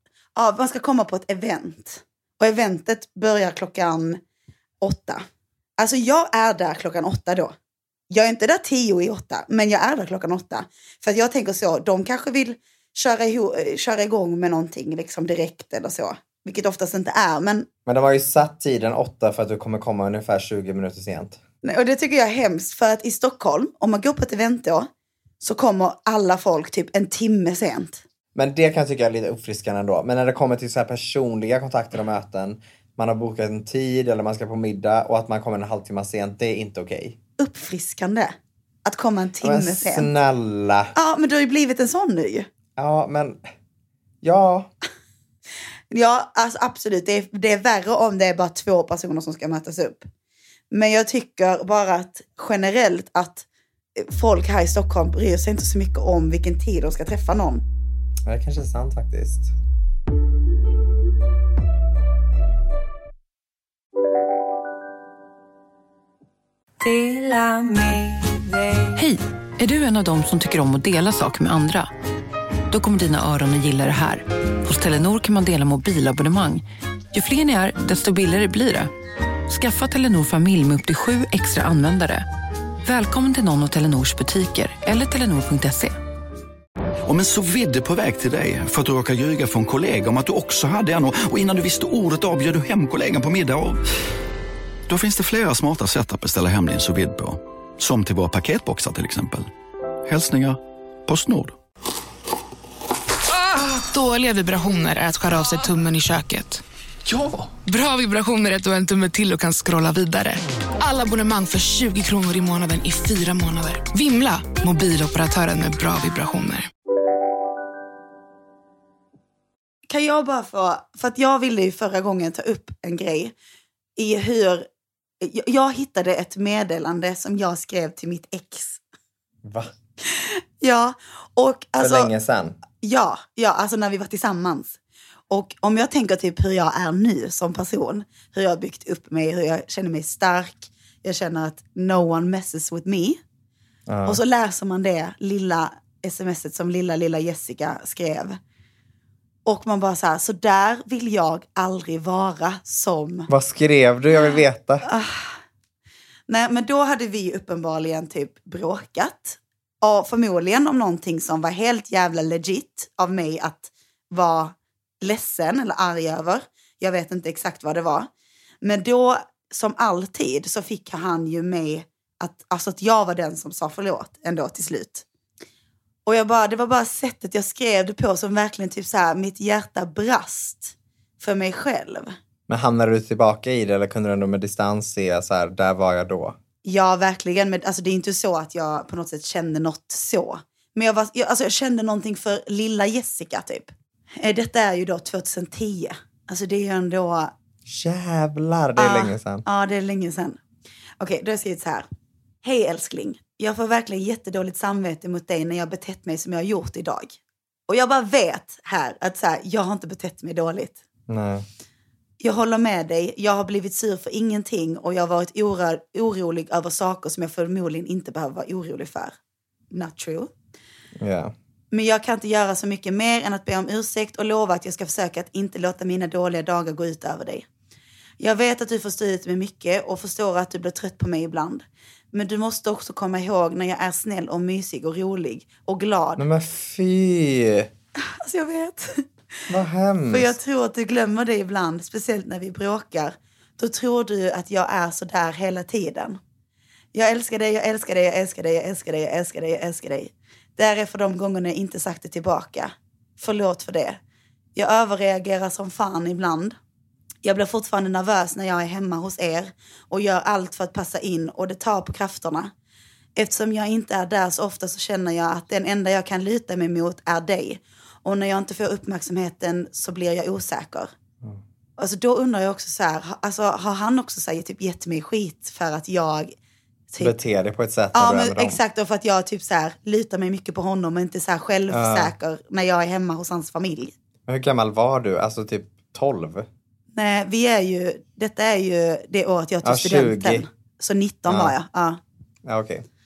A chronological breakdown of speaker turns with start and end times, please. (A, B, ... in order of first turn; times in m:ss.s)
0:00.4-0:04.2 A
0:04.8-0:05.2 A
0:05.8-0:07.6 A
0:08.1-0:17.7 A
0:17.9-0:21.4 B
0:21.6-0:24.9 A
0:25.4-0:28.0 A
0:28.4-0:37.2 B
0:37.4-0:40.1 A
0:39.4-0:40.9 B
0:41.0-0:42.5 A
0:42.8-0:43.5 B
0:44.2-0:44.7 B
0:45.9-0:50.1 A
0:50.7-0:57.6 A
0:58.3-0:59.5 B
1:09.0-1:11.9 C
1:12.7-1:18.9 C
1:19.5-1:22.3 C
1:22.8-1:26.0 C
1:27.1-1:33.8 D
1:34.9-1:39.5 D
1:40.1-1:41.6 D
1:43.9-1:46.6 E
1:47.1-1:47.4 D
1:47.7-1:56.7 E
1:59.9-2:03.3 A
2:04.0-2:04.7 A
2:05.2-2:08.8 A
2:09.4-2:09.7 B
2:10.1-2:12.1 A
2:11.8-2:12.6 B
2:12.8-2:14.8 A
2:15.3-2:23.2 A
2:23.9-2:24.2 B
2:24.1-2:28.4 A
2:29.5-2:33.3 A
2:33.3-2:34.8 B
2:34.2-2:35.4 A
2:36.3-2:48.1 A
2:48.6-2:55.0 A
2:56.1-3:02.1 A
3:02.5-3:06.4 B
3:06.6-3:17.3 A
3:17.7-3:19.4 B
3:18.8-3:20.4 A
3:21.0-3:21.9 A
3:22.4-3:30.8 A
3:31.1-3:31.4 B
3:32.2-3:39.2 A
3:39.7-3:40.3 A
3:41.0-3:41.3 B
3:41.7-3:47.5 A
3:48.2-3:56.2 A
3:56.2-3:57.7 B
3:58.0-3:59.1 A
3:59.5-4:00.4 B
4:00.1-4:06.2 A
4:06.9-4:14.0 A
4:14.6-4:16.6 A
4:17.2-4:22.5 A
4:23.2-4:30.9 A
4:31.8-4:36.4 A
4:36.9-4:37.2 A
4:37.0-4:38.6 B
4:37.9-4:43.9 A
4:41.7-4:42.1 B
4:44.3-4:46.5 B
4:47.0-4:52.0 A
4:49.6-4:50.5 B
4:51.3-4:51.5 B
4:52.4-4:52.8 B